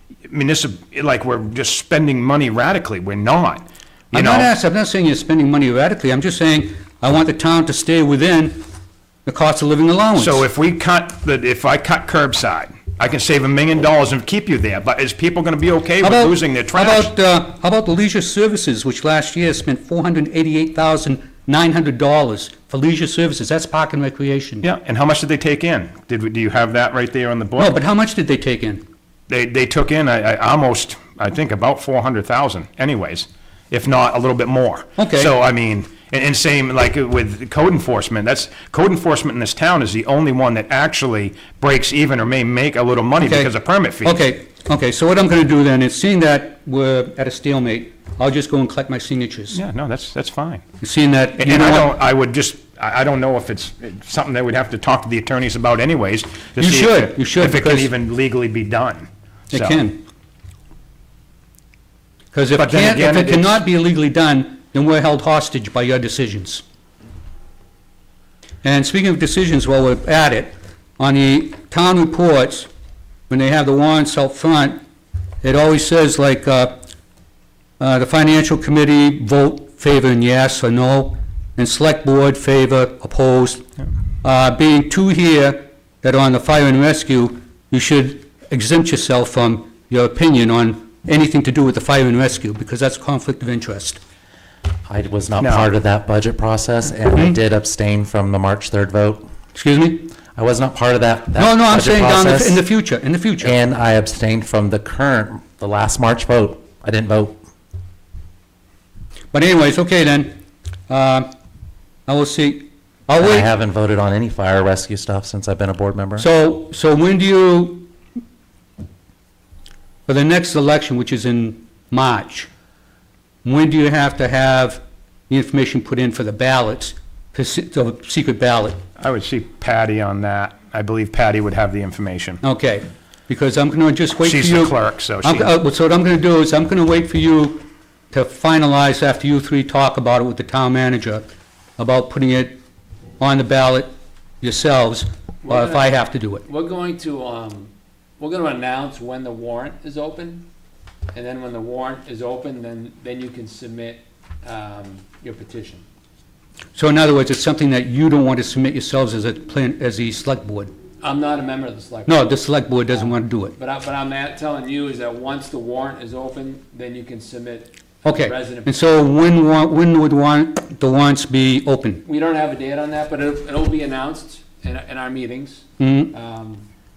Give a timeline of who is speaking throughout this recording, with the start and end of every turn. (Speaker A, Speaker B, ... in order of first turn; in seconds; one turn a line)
Speaker A: 0.3-4.5
Speaker B: 4.1-8.6
Speaker B: 9.2-10.5
Speaker A: 10.2-17.1
Speaker B: 16.0-24.6
Speaker A: 24.6-27.8
Speaker B: 27.6-28.8
Speaker A: 29.3-44.2
Speaker B: 35.0-35.3
Speaker B: 43.2-43.5
Speaker B: 44.0-49.6
Speaker A: 49.5-50.6
Speaker B: 50.8-51.9
Speaker A: 51.4-59.8
Speaker B: 56.6-57.9
Speaker B: 59.5-60.0
Speaker B: 62.3-66.6
Speaker A: 62.5-63.6
Speaker B: 68.6-72.7
Speaker B: 73.3-74.8
Speaker B: 75.4-76.8
Speaker B: 77.8-83.6
Speaker B: 84.2-94.0
Speaker C: 94.9-99.2
Speaker A: 95.4-95.7
Speaker B: 99.5-100.1
Speaker C: 100.3-102.6
Speaker B: 101.3-103.5
Speaker C: 103.4-107.4
Speaker B: 109.3-110.3
Speaker B: 110.9-111.3
Speaker B: 112.1-113.5
Speaker C: 113.2-116.3
Speaker B: 116.2-117.9
Speaker B: 120.1-122.5
Speaker B: 123.4-128.8
Speaker A: 129.0-132.4
Speaker B: 132.4-141.3
Speaker A: 134.2-135.5
Speaker B: 141.8-142.6
Speaker B: 143.2-146.4
Speaker D: 145.4-150.4
Speaker D: 151.1-155.8
Speaker B: 156.7-160.7
Speaker D: 161.0-162.3
Speaker B: 162.1-163.5
Speaker D: 163.6-168.8
Speaker B: 168.0-172.0
Speaker D: 172.0-176.7
Speaker B: 175.8-176.1